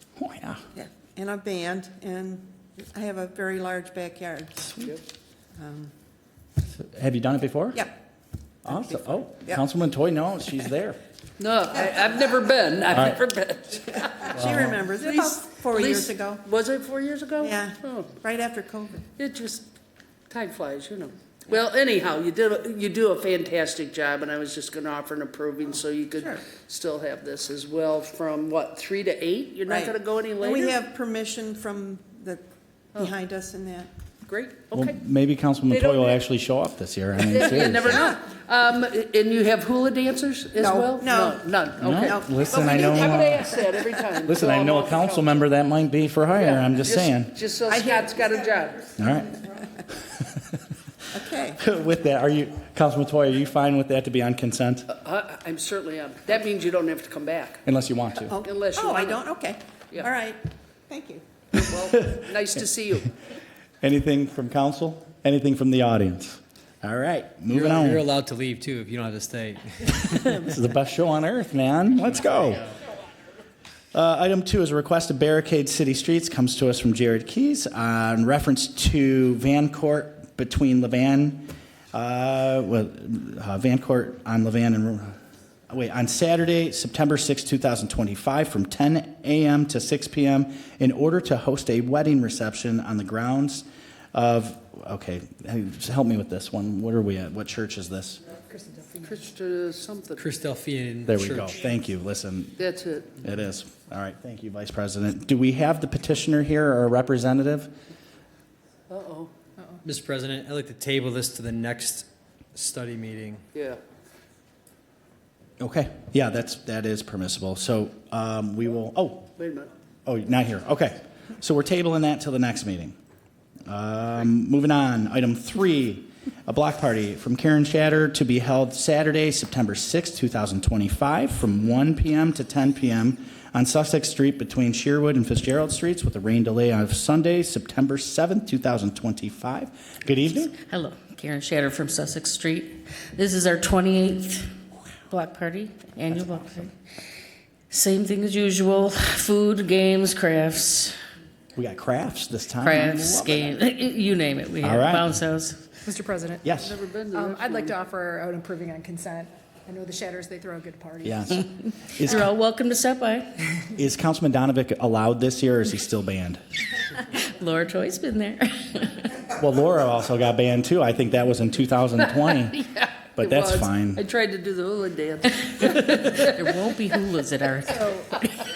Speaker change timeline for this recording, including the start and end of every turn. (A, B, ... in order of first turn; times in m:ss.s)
0:00.2-0:00.6 A
0:00.7-0:04.9 B
0:05.6-0:05.9 B
0:06.8-0:07.8 A
0:08.6-0:11.0 A
0:11.4-0:14.4 C
0:14.3-0:16.4 B
0:14.4-0:14.8 A
0:15.0-0:18.1 C
0:17.4-0:19.0 B
0:19.2-0:19.6 C
0:20.3-0:30.8 C
0:29.7-0:32.4 B
0:32.9-0:33.9 B
0:34.2-0:34.9 C
0:34.7-0:38.0 A
0:35.7-0:36.2 C
0:37.2-0:45.4 C
0:40.6-0:43.9 B
0:41.8-0:43.5 A
0:44.2-0:47.3 A
0:46.3-0:48.9 C
0:47.7-0:48.4 B
0:49.0-0:49.4 A
0:50.1-0:50.4 A
0:51.1-0:51.6 B
0:51.6-0:54.9 A
0:54.9-0:57.6 C
0:57.6-0:58.4 A
0:58.3-1:01.2 B
0:58.4-0:59.2 C
1:01.6-1:03.1 C
1:01.7-1:02.3 A
1:03.8-1:08.0 A
1:07.5-1:10.4 D
1:10.2-1:12.6 A
1:13.9-1:25.2 A
1:25.7-1:38.2 A
1:38.5-1:39.3 E
1:39.0-1:40.2 C
1:40.2-1:41.5 D
1:41.1-1:42.6 A
1:42.6-1:43.2 C
1:43.2-1:47.7 A
1:48.9-1:49.3 C
1:49.8-1:53.4 D
1:53.5-1:53.8 C
1:55.6-1:59.3 A
1:59.4-1:59.7 C
2:00.0-2:03.0 A
2:03.7-2:20.5 A
2:20.7-2:24.4 F
2:25.1-2:26.7 F
2:26.1-2:26.7 A
2:27.7-2:30.9 F
2:31.6-2:33.6 A
2:32.6-2:35.6 F
2:34.6-2:35.2 A
2:35.8-2:36.5 E
2:36.4-2:36.7 A
2:36.5-2:37.8 C
2:37.1-2:41.3 E
2:41.0-2:42.3 A
2:42.0-2:43.4 F
2:43.7-2:46.4 A
2:47.4-2:49.0 F
2:49.3-2:54.0 A
2:52.0-2:56.6 C
2:56.3-2:57.9 F
2:57.6-2:58.1 E